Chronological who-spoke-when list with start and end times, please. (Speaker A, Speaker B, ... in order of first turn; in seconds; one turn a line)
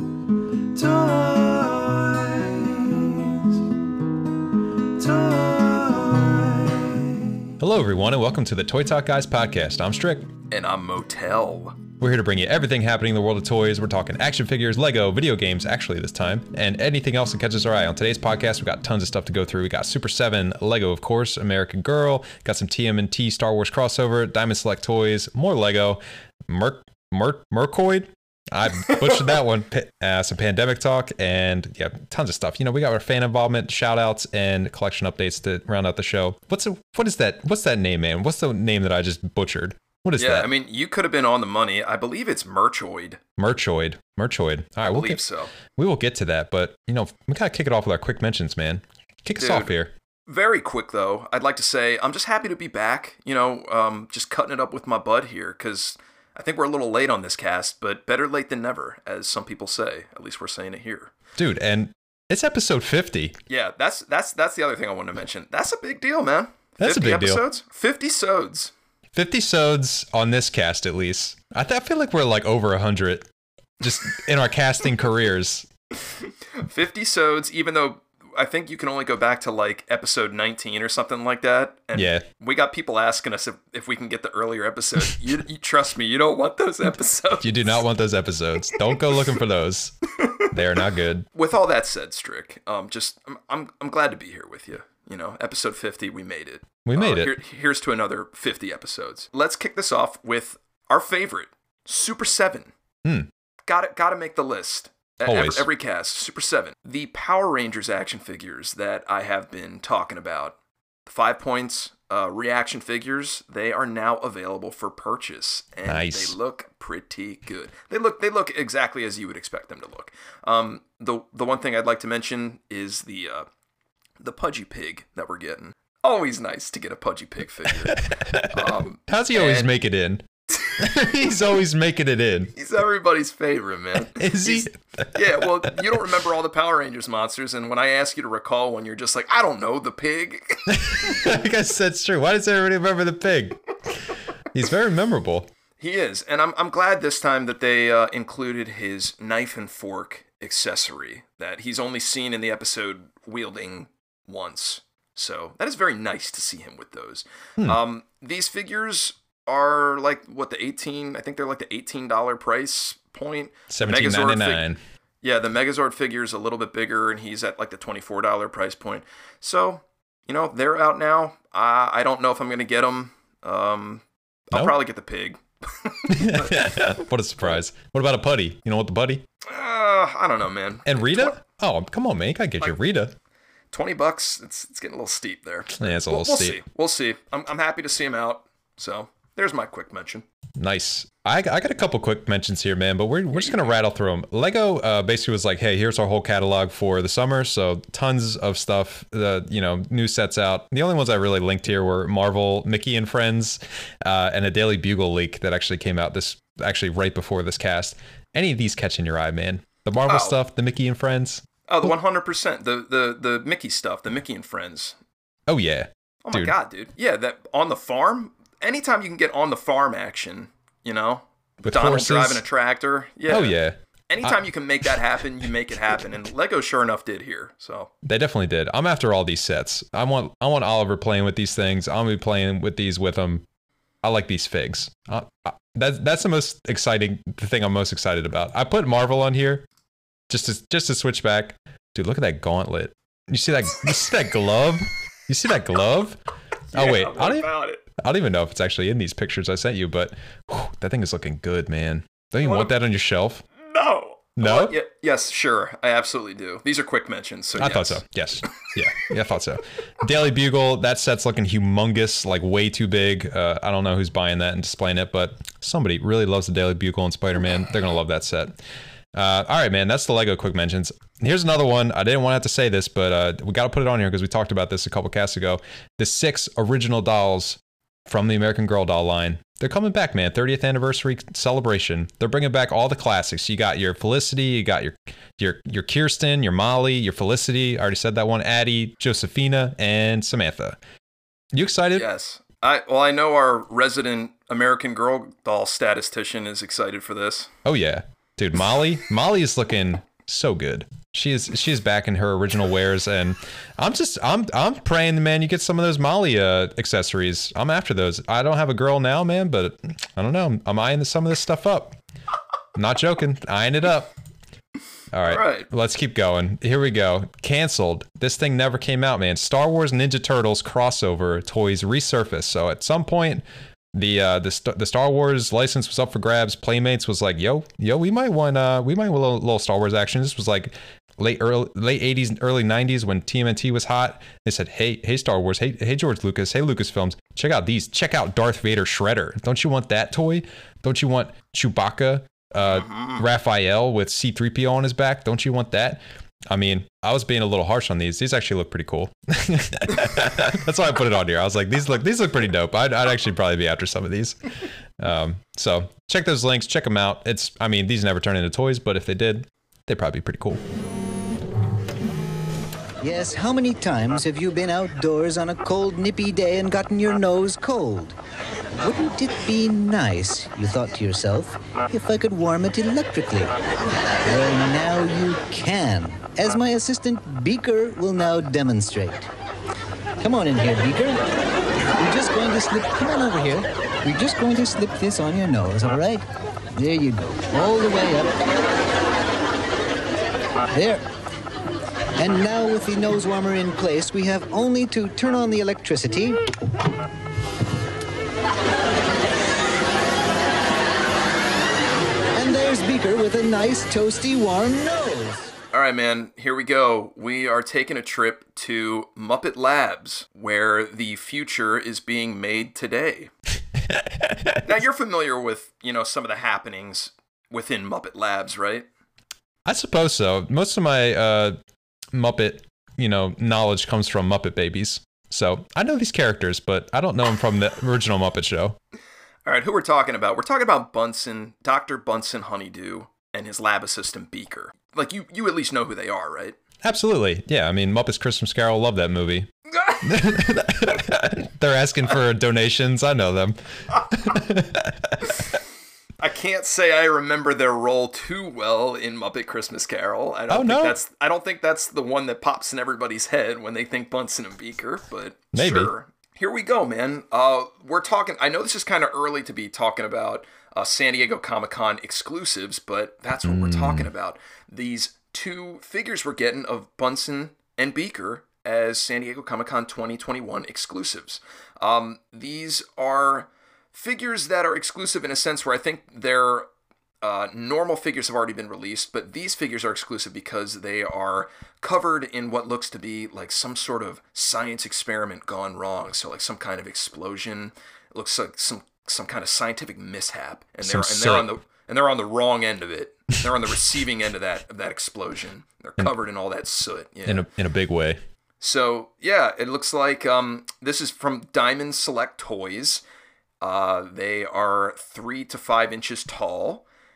Speaker A: 0.8-3.6
Speaker A: 5.0-7.5
Speaker B: 7.6-10.3
Speaker C: 10.5-11.8
Speaker B: 12.0-40.5
Speaker C: 40.2-43.2
Speaker B: 43.4-49.9
Speaker C: 44.8-45.5
Speaker C: 49.4-49.8
Speaker C: 50.3-61.1
Speaker B: 61.4-63.4
Speaker C: 63.5-68.7
Speaker B: 66.8-67.4
Speaker B: 69.1-73.3
Speaker B: 73.8-75.7
Speaker C: 76.6-87.8
Speaker B: 81.9-82.2
Speaker B: 87.4-90.0
Speaker B: 90.5-91.3
Speaker C: 91.3-102.7
Speaker B: 96.8-97.3
Speaker C: 103.7-110.5
Speaker B: 105.3-105.7
Speaker C: 111.1-123.5
Speaker B: 115.9-116.4
Speaker C: 124.2-129.7
Speaker B: 128.0-130.2
Speaker C: 130.6-130.8
Speaker B: 130.8-132.5
Speaker C: 132.6-141.2
Speaker B: 134.2-135.5
Speaker B: 140.7-145.5
Speaker C: 145.8-164.7
Speaker B: 163.7-164.8
Speaker C: 165.2-177.6
Speaker B: 176.1-179.2
Speaker C: 179.4-181.4
Speaker B: 180.9-183.1
Speaker C: 183.7-190.2
Speaker B: 185.8-186.6
Speaker B: 190.6-211.4
Speaker C: 193.3-193.8
Speaker C: 210.1-210.4
Speaker C: 211.7-215.0
Speaker B: 215.5-216.5
Speaker C: 216.2-223.6
Speaker B: 221.7-222.4
Speaker B: 223.3-224.4
Speaker C: 224.1-227.9
Speaker B: 228.0-233.4
Speaker B: 234.0-239.7
Speaker B: 240.3-246.2
Speaker C: 246.7-247.8
Speaker B: 246.7-253.4
Speaker C: 252.4-252.7
Speaker C: 253.6-258.0
Speaker B: 254.4-254.8
Speaker B: 257.6-268.6
Speaker B: 269.1-290.8
Speaker B: 291.5-292.1
Speaker C: 291.9-297.5
Speaker B: 297.6-312.0
Speaker B: 312.8-314.1
Speaker B: 315.1-354.4
Speaker C: 315.2-315.7
Speaker C: 342.6-343.2
Speaker B: 355.0-360.6
Speaker D: 363.0-368.2
Speaker D: 368.8-373.6
Speaker D: 374.1-379.3
Speaker D: 380.2-381.2
Speaker D: 381.9-388.6
Speaker D: 390.7-391.0
Speaker D: 392.2-396.4
Speaker D: 402.3-405.5
Speaker C: 405.7-413.3
Speaker B: 413.9-414.6
Speaker C: 414.6-418.9
Speaker B: 419.7-421.6
Speaker B: 422.1-428.8
Speaker C: 429.5-436.6
Speaker B: 436.8-439.5
Speaker B: 440.0-445.4
Speaker C: 446.2-476.7
Speaker B: 450.5-451.0
Speaker B: 455.5-455.9
Speaker B: 463.4-464.1
Speaker C: 477.2-497.4
Speaker B: 490.8-491.5
Speaker B: 497.3-498.2
Speaker C: 498.6-503.0
Speaker C: 503.6-506.8